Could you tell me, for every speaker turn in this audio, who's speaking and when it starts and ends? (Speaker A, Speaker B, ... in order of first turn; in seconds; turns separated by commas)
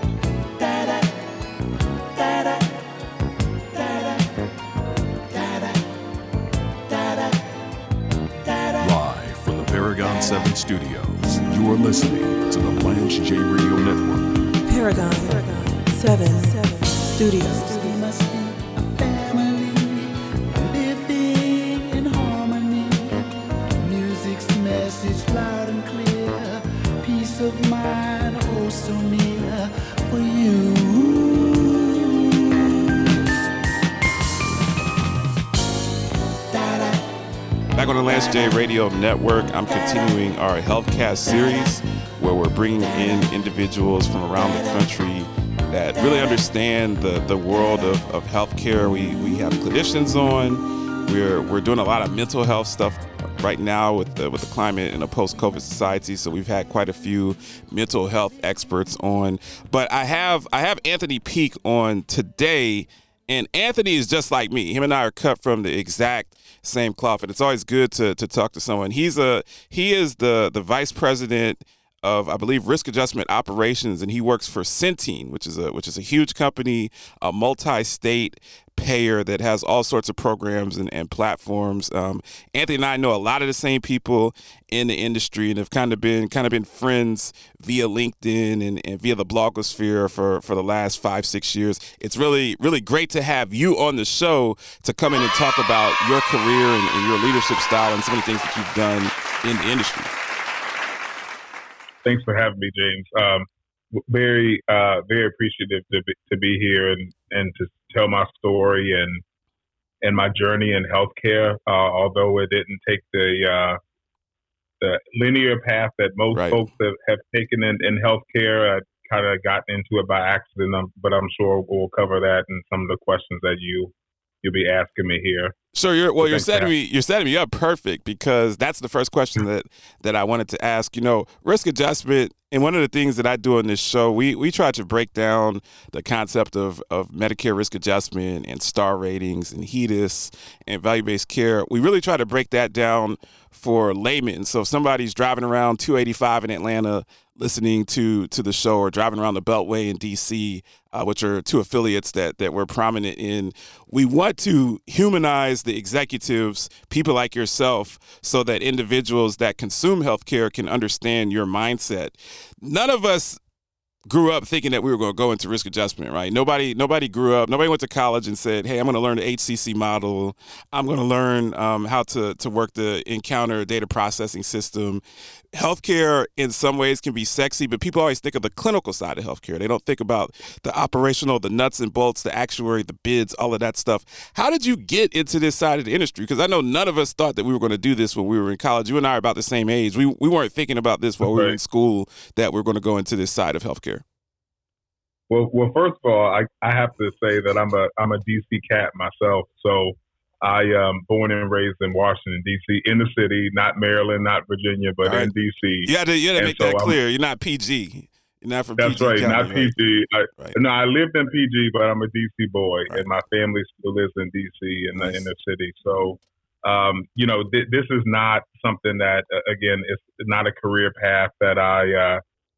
Speaker A: 0.6-1.0, Speaker A: 2.2-2.6, Speaker A: 3.8-4.2, Speaker A: 5.3-5.8, Speaker A: 6.9-7.4, Speaker A: 8.5-8.8, Speaker B: 8.8-14.5, Speaker C: 14.7-17.9, Speaker A: 16.4-16.7, Speaker A: 17.4-32.9, Speaker D: 37.7-100.1, Speaker E: 102.0-109.2, Speaker E: 110.0-113.8, Speaker E: 114.8-125.5, Speaker D: 116.3-116.6, Speaker D: 125.7-163.4, Speaker E: 126.2-126.7, Speaker D: 164.1-175.0, Speaker D: 175.5-194.0, Speaker E: 191.2-191.6, Speaker E: 195.3-207.0, Speaker D: 205.0-205.3, Speaker D: 205.8-209.8, Speaker E: 208.8-222.2, Speaker D: 214.9-215.3